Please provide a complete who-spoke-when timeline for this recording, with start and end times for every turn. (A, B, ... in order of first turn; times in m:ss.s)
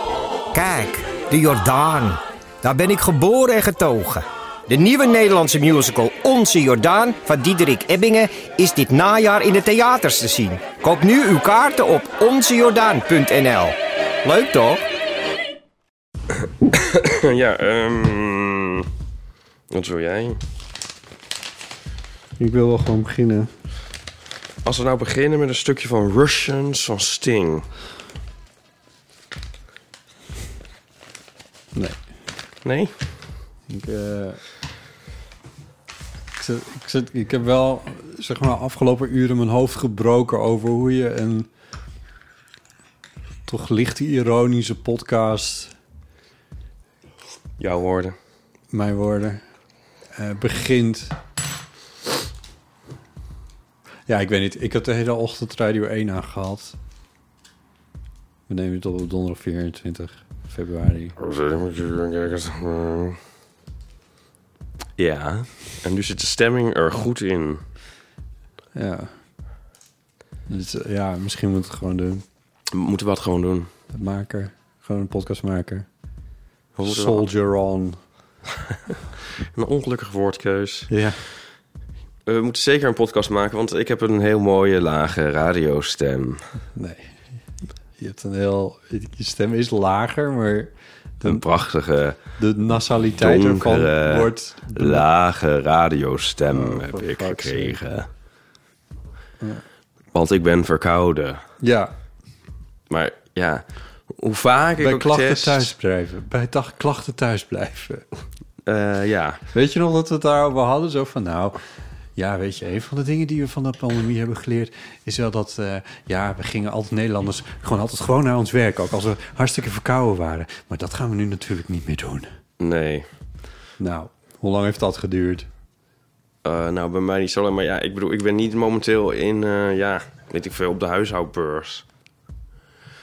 0:00.5-0:13.8 A
0:14.2-0:14.8 B
0:14.3-0:14.7 A
0:16.7-0:18.8 C
0:19.7-0:20.4 C
0:22.4-0:23.5 B
0:24.6-0:27.7 C
0:31.7-0:32.0 B
0:32.6-0:32.9 C
0:33.7-0:34.4 B
0:36.4-0:41.5 B
0:43.4-0:45.7 B
0:47.6-0:48.1 C
0:48.7-0:49.4 B
0:50.1-0:51.2 B
0:54.1-0:56.8 B
0:58.5-1:01.1 B
1:01.2-1:03.2 C
1:05.0-1:07.6 C
1:08.7-1:09.1 B
1:10.5-1:12.2 B
1:12.7-1:13.7 C
1:13.9-1:15.9 B
1:16.8-1:17.2 C
1:16.8-1:18.0 B
1:19.5-1:20.9 C
1:20.9-1:21.2 B
1:22.3-1:26.4 C
1:26.7-1:27.2 B
1:28.0-1:31.4 B
1:31.2-1:32.2 C
1:32.4-1:35.0 B
1:33.2-1:38.1 C
1:36.5-1:37.8 B
1:40.1-1:41.4 C
1:41.6-1:41.9 B
1:42.9-1:45.7 C
1:44.8-1:48.0 B
1:48.6-1:49.4 C
1:49.5-1:51.6 B
1:52.2-2:02.3 B
2:02.6-2:03.0 C
2:03.8-2:05.5 B
2:06.4-2:11.8 C